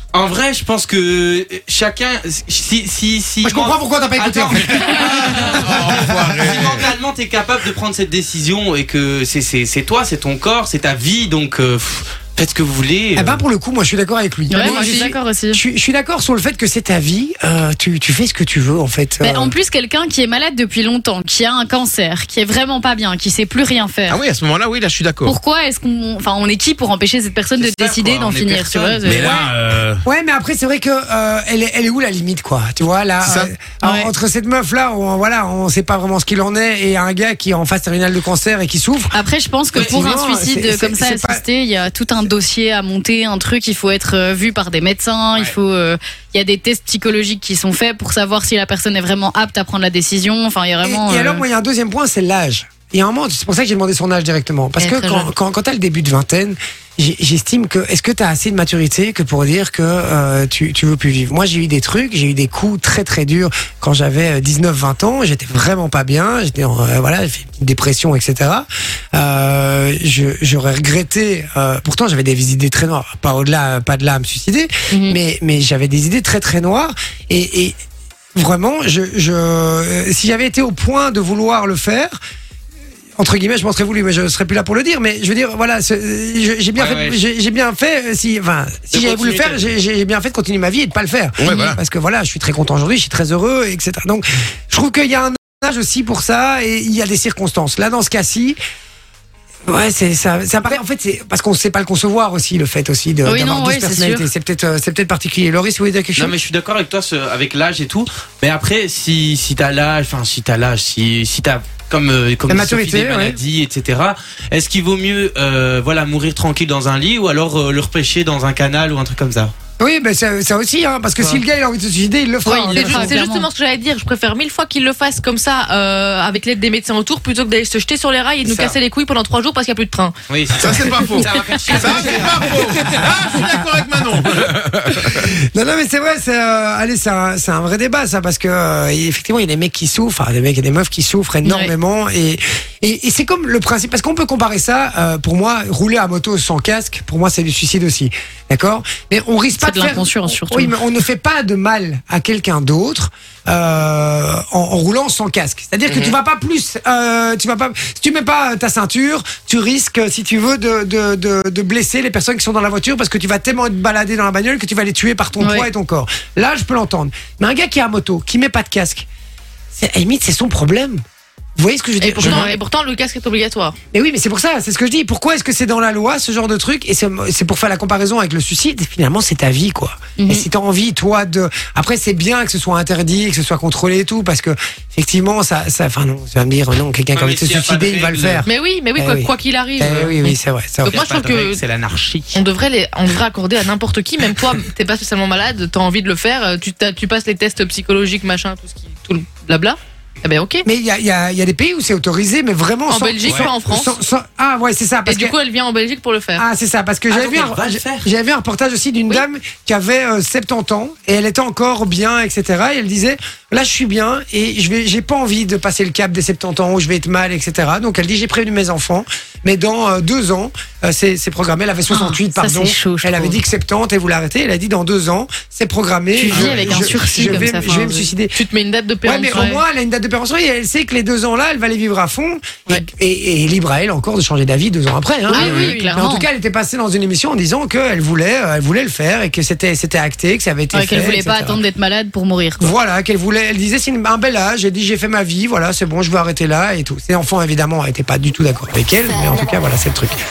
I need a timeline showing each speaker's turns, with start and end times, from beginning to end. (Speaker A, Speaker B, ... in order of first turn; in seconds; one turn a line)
Speaker A: 0.1-13.4
Speaker B: 3.4-5.1
Speaker C: 4.7-6.9
Speaker B: 5.9-6.6
Speaker B: 13.2-19.6
Speaker D: 14.5-15.6
Speaker E: 14.5-15.1
Speaker D: 19.2-24.2
Speaker C: 24.1-25.4
Speaker D: 25.2-29.3
Speaker A: 27.5-29.5
Speaker C: 29.0-30.0
Speaker B: 30.1-39.1
Speaker C: 33.2-33.5
Speaker D: 33.8-34.1
Speaker D: 39.1-51.5
Speaker B: 39.7-41.4
Speaker A: 39.8-40.0
Speaker B: 50.8-77.8
Speaker D: 54.8-55.3
Speaker E: 74.9-75.2
Speaker B: 78.3-82.2
Speaker B: 83.2-98.6
Speaker A: 86.8-87.2
Speaker A: 88.9-89.7
Speaker C: 91.4-91.8
Speaker B: 99.7-106.4
Speaker D: 103.2-104.3
Speaker A: 106.2-119.5
Speaker B: 112.5-113.4
Speaker B: 119.8-123.2
Speaker D: 122.4-123.5
Speaker E: 122.8-130.2
Speaker A: 128.4-128.8
Speaker A: 130.3-133.0
Speaker C: 130.6-135.3
Speaker E: 130.7-131.9
Speaker B: 131.2-133.8
Speaker B: 135.0-169.1
Speaker E: 141.4-141.7
Speaker D: 149.6-150.8
Speaker C: 155.9-156.2
Speaker D: 165.4-165.7
Speaker B: 169.7-171.0
Speaker B: 171.6-172.5
Speaker E: 172.0-173.8
Speaker D: 172.2-172.6
Speaker B: 173.9-190.9
Speaker D: 180.2-180.5
Speaker A: 187.1-188.5
Speaker E: 188.5-191.6
Speaker A: 190.8-192.4
Speaker E: 192.3-200.7
Speaker B: 200.7-205.3
Speaker E: 202.9-204.0
Speaker E: 205.1-206.4
Speaker B: 206.4-228.3
Speaker A: 207.1-208.1
Speaker D: 221.9-223.4
Speaker D: 226.1-228.1
Speaker E: 226.4-229.5
Speaker B: 229.0-241.6
Speaker D: 229.3-229.6
Speaker E: 235.3-236.0
Speaker D: 235.3-236.3
Speaker D: 240.7-242.7
Speaker B: 242.6-250.2